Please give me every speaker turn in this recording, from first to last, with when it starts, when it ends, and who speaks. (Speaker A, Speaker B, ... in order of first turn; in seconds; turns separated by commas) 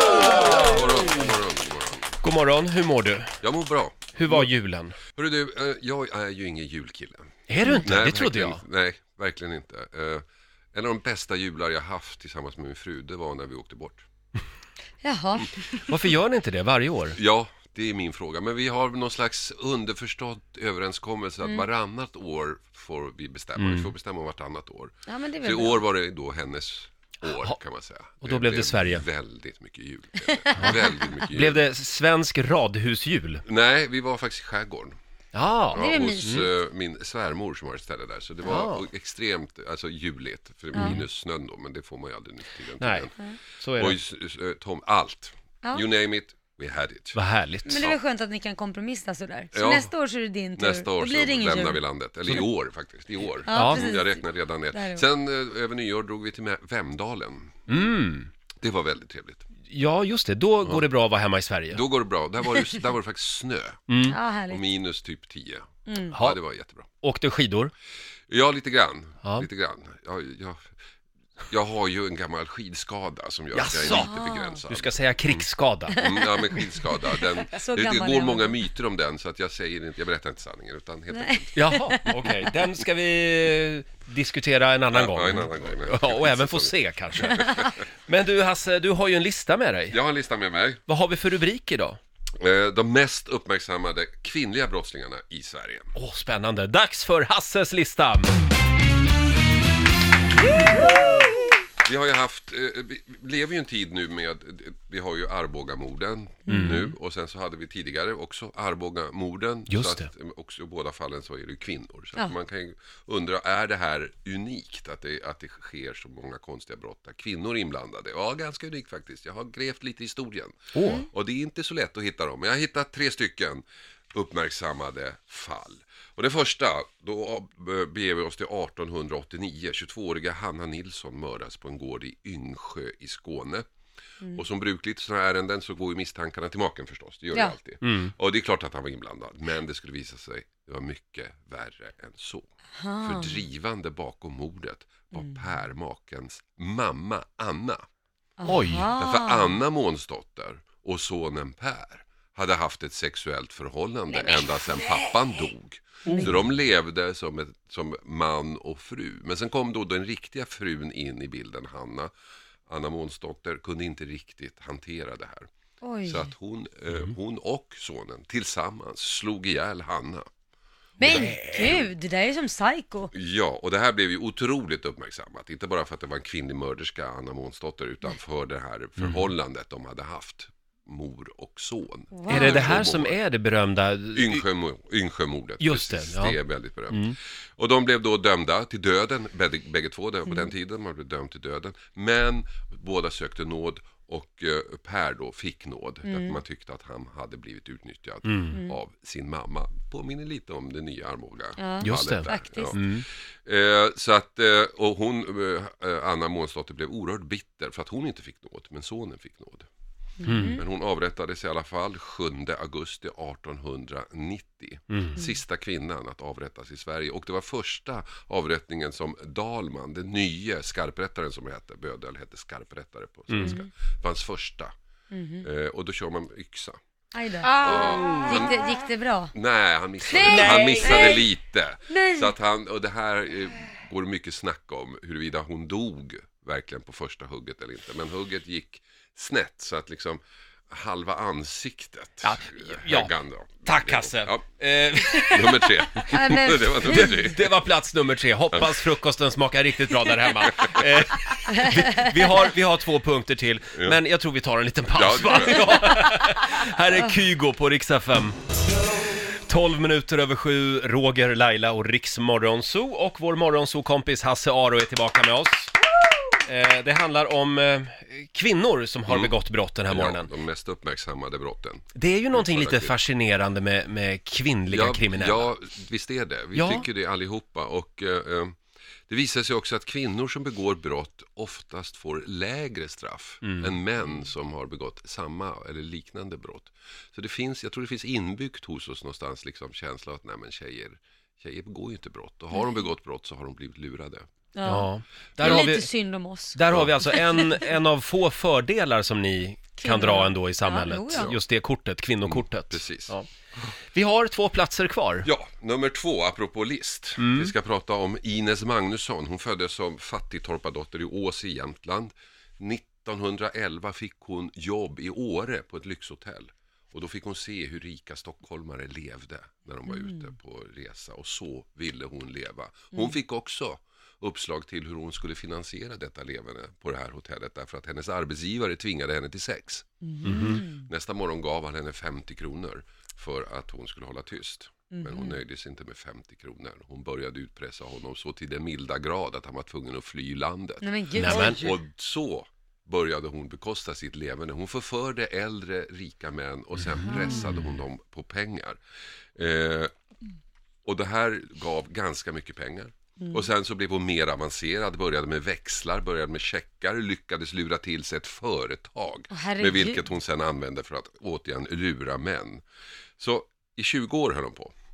Speaker A: 0.2-2.2, Speaker B: 2.2-3.3, Speaker A: 3.4-4.5, Speaker B: 4.1-5.0, Speaker A: 5.2-14.1, Speaker B: 7.5-8.6, Speaker C: 15.0-15.6, Speaker B: 15.8-17.2, Speaker A: 17.1-31.6, Speaker B: 23.6-23.9, Speaker C: 25.1-25.8, Speaker B: 28.2-29.1, Speaker C: 30.2-30.9, Speaker B: 31.3-33.4, Speaker A: 33.5-35.0, Speaker B: 35.3-36.5, Speaker A: 35.7-48.0, Speaker C: 35.7-36.5, Speaker B: 38.5-38.8, Speaker C: 40.7-41.0, Speaker B: 40.8-41.0, Speaker B: 42.8-44.0, Speaker B: 47.1-47.9, Speaker C: 47.7-51.8, Speaker A: 49.5-49.9, Speaker A: 50.6-57.5, Speaker C: 53.5-55.0, Speaker B: 53.5-53.9, Speaker B: 57.7-58.3, Speaker A: 58.6-59.5, Speaker B: 59.7-61.8, Speaker A: 61.7-63.8, Speaker B: 63.9-64.2, Speaker C: 64.1-64.6, Speaker A: 64.5-66.9, Speaker C: 65.9-66.2, Speaker B: 66.1-66.4, Speaker B: 67.0-67.7, Speaker A: 68.3-70.7, Speaker A: 71.5-75.5, Speaker B: 73.5-74.2, Speaker C: 73.8-74.6, Speaker B: 74.7-76.0, Speaker C: 75.9-78.5, Speaker A: 76.0-81.8, Speaker C: 81.1-82.5, Speaker B: 81.5-90.0, Speaker A: 84.9-87.8, Speaker A: 89.9-90.8, Speaker B: 90.9-92.0, Speaker A: 92.4-95.9, Speaker B: 96.0-98.3, Speaker A: 101.8-133.7, Speaker C: 106.5-106.8, Speaker B: 106.5-106.8, Speaker B: 109.7-110.1, Speaker B: 120.7-121.1, Speaker A: 134.3-142.5, Speaker B: 137.8-138.1, Speaker C: 142.8-143.4, Speaker A: 143.0-147.8, Speaker C: 148.4-149.6, Speaker B: 148.5-148.9, Speaker A: 149.0-162.1, Speaker C: 154.3-154.9, Speaker B: 156.1-156.3, Speaker A: 162.7-165.5, Speaker C: 165.8-166.3, Speaker A: 166.1-170.3, Speaker C: 171.0-173.1, Speaker B: 171.0-171.8, Speaker A: 171.0-171.4, Speaker A: 173.1-183.2, Speaker B: 179.0-179.3, Speaker C: 182.1-182.8, Speaker B: 182.3-184.4, Speaker A: 184.1-209.7, Speaker B: 185.6-186.4, Speaker B: 186.9-187.2, Speaker C: 196.1-196.4, Speaker B: 198.2-198.6, Speaker C: 201.6-202.8, Speaker B: 201.8-203.1, Speaker C: 210.2-210.6, Speaker B: 210.3-210.6, Speaker A: 210.5-224.7, Speaker B: 214.9-215.2, Speaker B: 223.3-223.6, Speaker C: 223.4-223.7, Speaker C: 225.1-225.5, Speaker A: 225.4-226.8, Speaker C: 227.1-229.3, Speaker A: 227.6-228.7, Speaker A: 229.3-244.5, Speaker C: 230.1-231.3, Speaker B: 230.2-231.2, Speaker C: 231.9-232.3, Speaker B: 242.2-243.1, Speaker B: 243.7-245.7, Speaker A: 245.2-247.5, Speaker C: 246.1-247.3, Speaker B: 246.8-258.4, Speaker A: 248.5-248.8, Speaker C: 251.5-252.1, Speaker A: 253.7-254.0, Speaker A: 254.9-255.9, Speaker B: 259.5-265.8, Speaker B: 266.5-270.3, Speaker A: 269.1-269.4, Speaker A: 269.9-272.9, Speaker B: 271.9-275.5, Speaker A: 274.7-294.3, Speaker B: 276.6-276.9, Speaker B: 283.4-283.7, Speaker C: 294.6-297.5, Speaker B: 294.7-295.9, Speaker B: 296.5-303.3, Speaker C: 299.8-301.4, Speaker A: 302.3-303.1, Speaker B: 303.9-305.3, Speaker A: 305.2-348.8, Speaker B: 307.2-307.5, Speaker C: 319.9-320.1, Speaker C: 330.1-330.9, Speaker B: 330.2-330.6, Speaker C: 334.9-335.4, Speaker C: 340.8-341.7, Speaker B: 341.1-341.6, Speaker C: 347.0-347.4, Speaker A: 349.4-349.9, Speaker A: 350.9-362.6, Speaker C: 359.3-360.0, Speaker A: 363.2-364.7